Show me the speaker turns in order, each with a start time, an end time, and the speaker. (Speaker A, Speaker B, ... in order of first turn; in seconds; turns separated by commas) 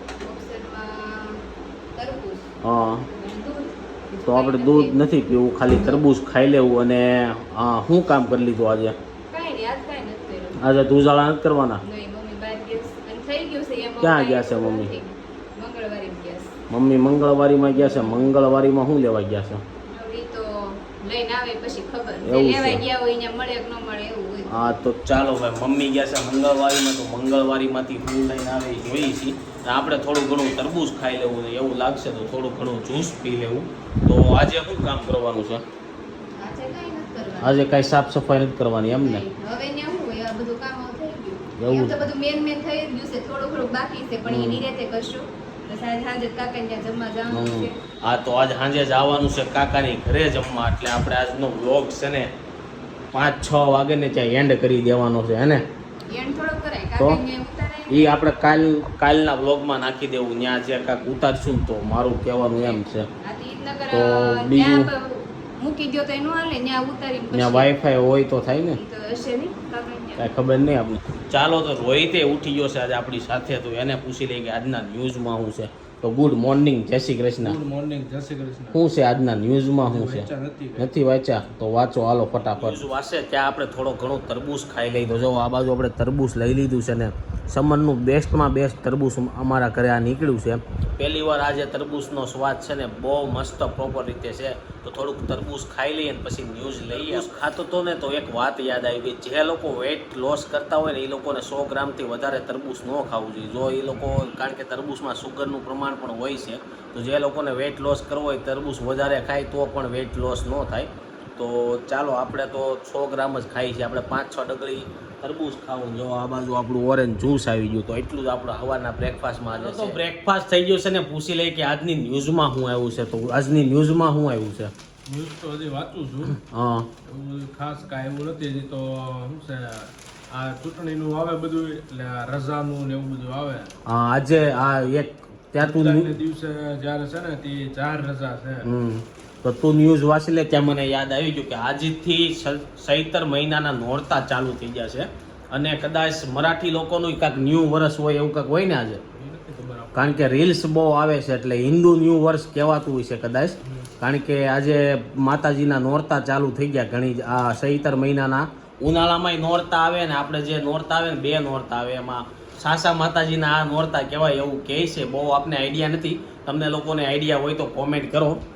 Speaker A: 0.2-1.4, Speaker A: 1.9-2.5, Speaker B: 2.6-3.1, Speaker A: 3.1-5.0, Speaker B: 4.3-9.0, Speaker A: 5.6-6.0, Speaker A: 9.3-10.6, Speaker B: 10.6-11.8, Speaker A: 11.8-16.5, Speaker B: 14.0-14.9, Speaker B: 16.7-19.6, Speaker A: 17.8-18.3, Speaker A: 19.9-24.7, Speaker B: 22.2-22.9, Speaker B: 24.5-35.6, Speaker A: 36.4-37.6, Speaker B: 37.4-39.2, Speaker A: 39.0-47.8, Speaker B: 41.6-42.1, Speaker B: 44.3-44.6, Speaker B: 47.3-52.3, Speaker B: 53.1-55.6, Speaker A: 56.1-58.2, Speaker B: 57.9-63.1, Speaker A: 62.5-67.9, Speaker B: 63.9-64.9, Speaker B: 67.3-68.8, Speaker A: 68.7-70.3, Speaker B: 70.2-77.6, Speaker C: 77.4-78.8, Speaker B: 78.7-124.7, Speaker C: 79.9-80.9, Speaker C: 96.8-97.5, Speaker C: 119.5-120.0, Speaker C: 125.1-126.4, Speaker B: 126.4-126.9, Speaker C: 127.0-133.7, Speaker B: 133.9-136.2, Speaker C: 135.6-138.7, Speaker B: 138.6-149.0, Speaker C: 149.1-150.4, Speaker B: 149.9-168.4, Speaker C: 153.7-153.9